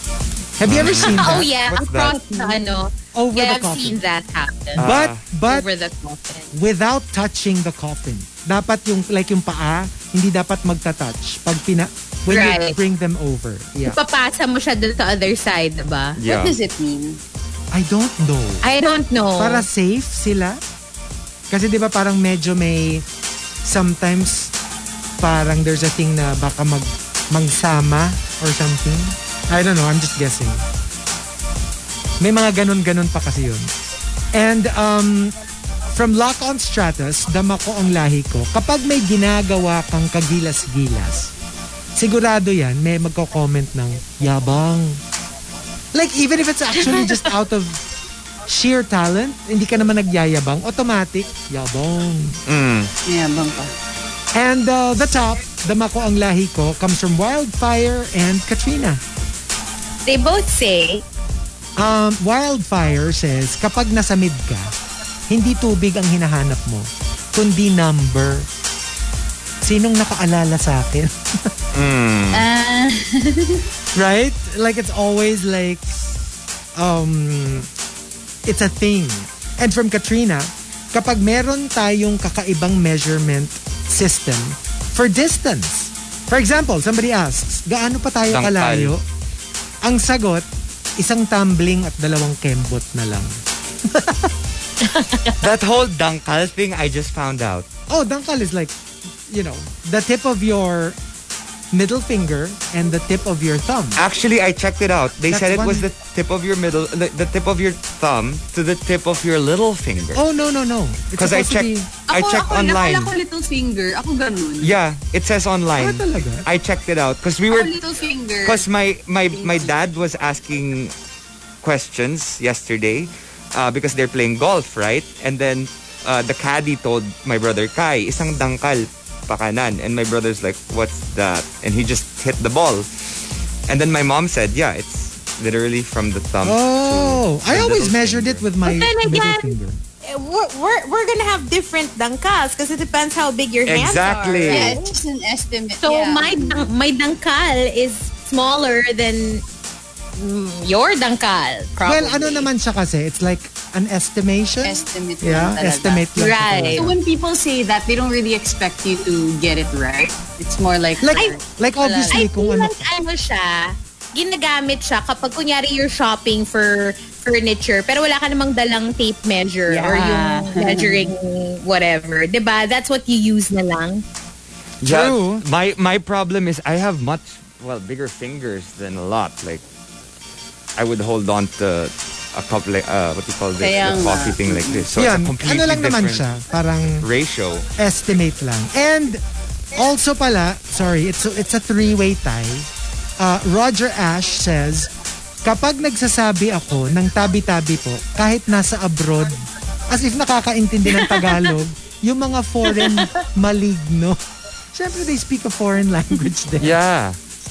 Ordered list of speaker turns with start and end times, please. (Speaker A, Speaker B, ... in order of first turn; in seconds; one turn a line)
Speaker A: 0.6-1.5
Speaker B: 0.7-2.2
Speaker C: 0.8-4.9
Speaker A: 3.1-4.0
Speaker A: 4.8-5.7
Speaker B: 4.8-5.2
Speaker C: 5.5-6.5
Speaker A: 6.5-14.0
Speaker C: 12.3-12.8
Speaker C: 13.8-16.2
Speaker B: 16.2-16.6
Speaker D: 16.2-17.2
Speaker A: 17.7-18.7
Speaker C: 18.6-19.7
Speaker A: 19.4-20.6
Speaker A: 21.5-23.1
Speaker A: 23.6-24.5
Speaker A: 25.2-30.6
Speaker A: 32.2-33.7
Speaker A: 34.3-35.3
Speaker A: 35.9-41.3
Speaker A: 42.0-45.0
Speaker A: 45.9-47.8
Speaker C: 46.8-47.3
Speaker A: 48.5-52.4
Speaker B: 52.5-52.9
Speaker D: 53.1-53.7
Speaker A: 54.3-59.0
Speaker C: 60.1-61.0
Speaker A: 61.8-64.7
Speaker A: 65.3-68.5
Speaker A: 69.6-71.5
Speaker B: 71.7-72.5
Speaker D: 72.3-73.7
Speaker A: 74.0-75.9
Speaker A: 76.8-77.7
Speaker A: 78.5-89.0
Speaker B: 88.3-88.9
Speaker A: 89.8-90.5
Speaker A: 91.0-93.3
Speaker A: 93.8-94.3
Speaker C: 94.8-95.4
Speaker B: 95.4-97.7
Speaker A: 97.9-98.8
Speaker A: 99.3-101.0
Speaker A: 101.7-104.0
Speaker B: 104.0-110.2
Speaker A: 105.3-105.8
Speaker A: 110.2-111.9
Speaker B: 111.2-113.1
Speaker D: 112.1-114.7
Speaker B: 114.6-117.8
Speaker A: 115.8-116.5
Speaker D: 117.5-118.6
Speaker B: 118.4-120.9
Speaker D: 119.3-119.8
Speaker B: 121.6-133.1
Speaker B: 133.7-138.5
Speaker A: 136.4-139.8
Speaker C: 138.6-144.9
Speaker B: 143.7-144.8
Speaker D: 144.5-146.7
Speaker C: 145.8-149.4
Speaker C: 150.2-152.5
Speaker A: 151.8-156.9
Speaker D: 154.6-156.1
Speaker C: 156.2-156.9
Speaker D: 156.7-162.3
Speaker A: 161.0-162.9
Speaker C: 161.1-161.4
Speaker C: 162.1-174.0
Speaker D: 169.7-171.1
Speaker B: 174.8-179.6
Speaker A: 174.8-175.4
Speaker B: 180.8-186.4
Speaker D: 183.6-184.9
Speaker A: 184.9-187.1
Speaker B: 187.0-187.7
Speaker A: 187.8-189.2
Speaker A: 189.7-192.7
Speaker A: 193.2-194.9
Speaker A: 195.4-204.2
Speaker C: 200.9-201.5
Speaker C: 202.8-203.1
Speaker A: 204.7-206.8
Speaker B: 206.6-207.2